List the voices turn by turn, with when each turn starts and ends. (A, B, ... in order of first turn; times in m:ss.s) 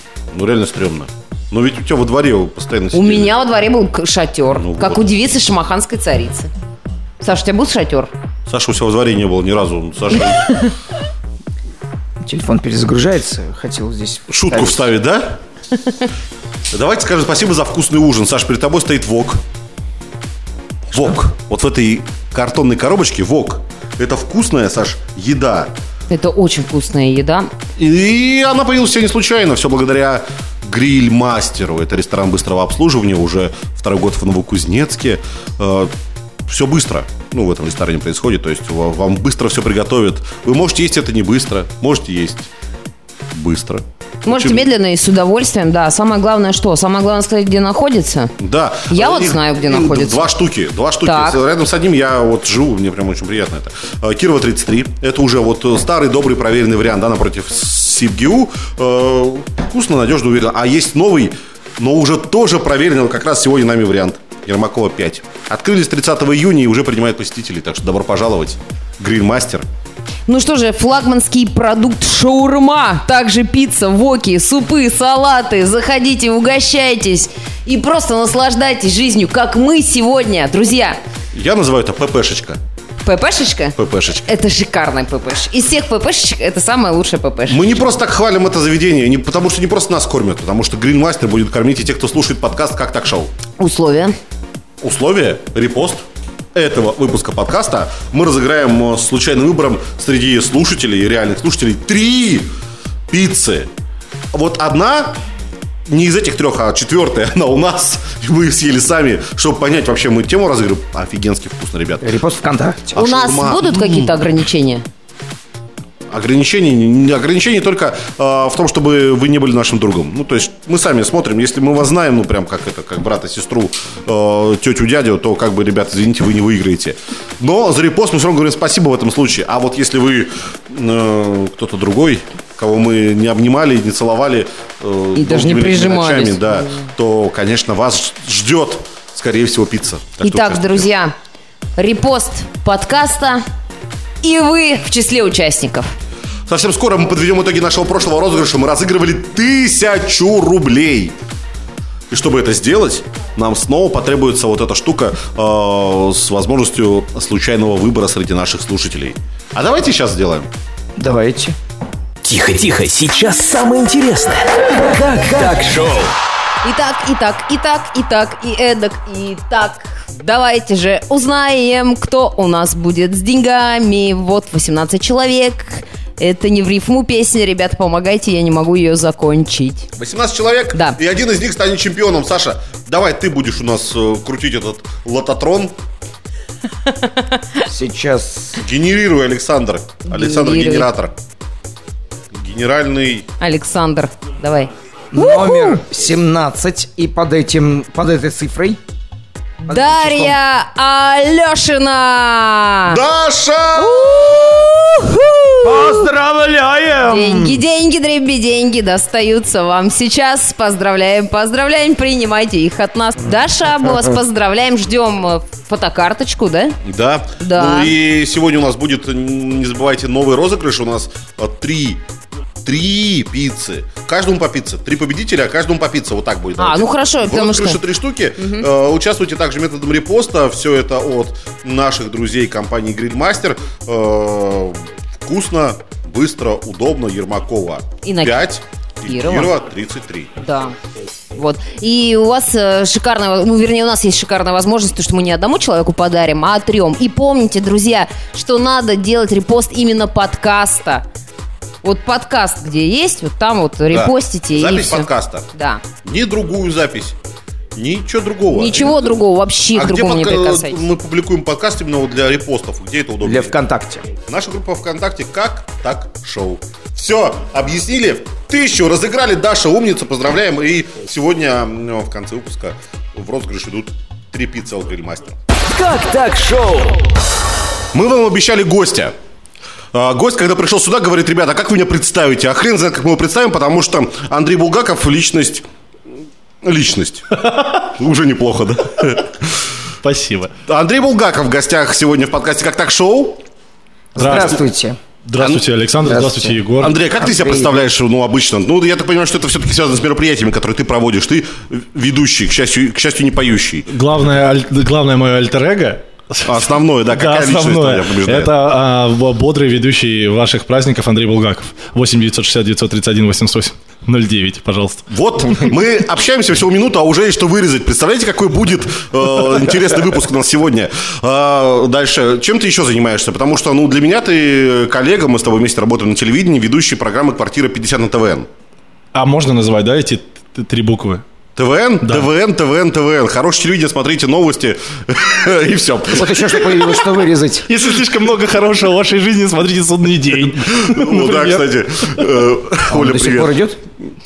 0:00.3-0:03.3 A
0:02.9-0:06.5 B
0:04.6-0:05.0 A
0:07.2-0:08.1 B
0:08.5-0:10.6 A
0:12.2-0:14.9 C
0:14.3-0:15.4 A
0:16.7-0:19.4 A
0:20.9-0:25.7 A
0:26.1-0:27.5 B
0:27.8-0:35.9 A
0:36.4-0:42.5 A
0:43.3-0:44.7 A
0:44.2-0:48.3 B
0:48.4-1:09.6 A
0:48.9-0:50.3 B
0:51.0-0:51.4 B
1:10.3-1:21.0 B
1:21.3-1:22.6 A
1:23.0-1:27.8 B
1:23.8-1:24.2 A
1:27.5-1:33.3 A
1:33.6-1:34.1 B
1:34.8-1:42.5 A
1:43.1-1:43.7 A
1:44.3-1:45.2 A
1:45.9-1:52.1 A
1:52.0-1:53.0 C
1:52.9-1:54.1 A
1:53.0-1:54.8 B
1:56.1-2:20.8 A
2:15.1-2:16.8 B
2:20.2-2:21.1 B
2:21.8-2:23.4 B
2:24.2-2:25.9 B
2:26.5-2:31.1 A
2:32.1-2:40.5 A
2:41.0-2:41.6 C
2:42.2-2:46.1 D
2:46.6-2:59.9 B
3:00.0-3:05.7 A
3:00.7-3:01.0 B
3:07.6-3:08.6 C
3:08.6-3:11.1 A
3:10.0-3:10.9 B
3:12.3-3:13.2 A
3:13.4-3:15.8 B
3:15.1-3:18.8 C
3:19.6-3:20.4 C
3:19.6-3:23.0 B
3:22.9-3:24.6 A
3:23.8-3:26.1 B
3:25.6-3:27.6 C
3:27.1-3:36.8 B
3:36.8-3:42.0 A
3:37.4-3:37.9 B
3:42.6-4:00.3 A
3:46.6-3:47.8 B
3:48.4-3:48.6 B
3:58.0-3:58.5 B
3:59.0-3:59.5 B
4:00.4-4:00.7 B
4:01.3-4:11.0 B
4:11.8-4:15.8 B
4:13.9-4:15.4 A
4:16.0-4:17.2 A
4:17.7-4:19.0 A
4:18.5-4:20.8 B
4:19.7-4:23.5 A
4:23.2-4:24.1 C
4:24.2-4:35.4 A
4:35.6-4:37.0 D
4:37.9-4:39.1 A
4:39.9-4:45.6 A
4:46.6-4:49.5 A
4:47.4-4:47.7 E
4:50.0-4:50.5 E
4:50.6-4:53.4 A
4:54.1-4:55.0 C
4:54.2-4:54.6 E
4:55.2-4:57.0 E
4:56.0-4:57.8 C
4:56.8-5:03.9 A
5:03.9-5:15.1 E
5:06.4-5:08.5 A
5:15.1-5:28.5 A
5:29.1-5:31.2 E
5:31.6-5:37.1 A
5:32.0-5:32.3 E
5:36.1-5:37.7 C
5:37.6-5:42.2 E
5:40.4-5:43.6 A
5:42.9-5:43.8 C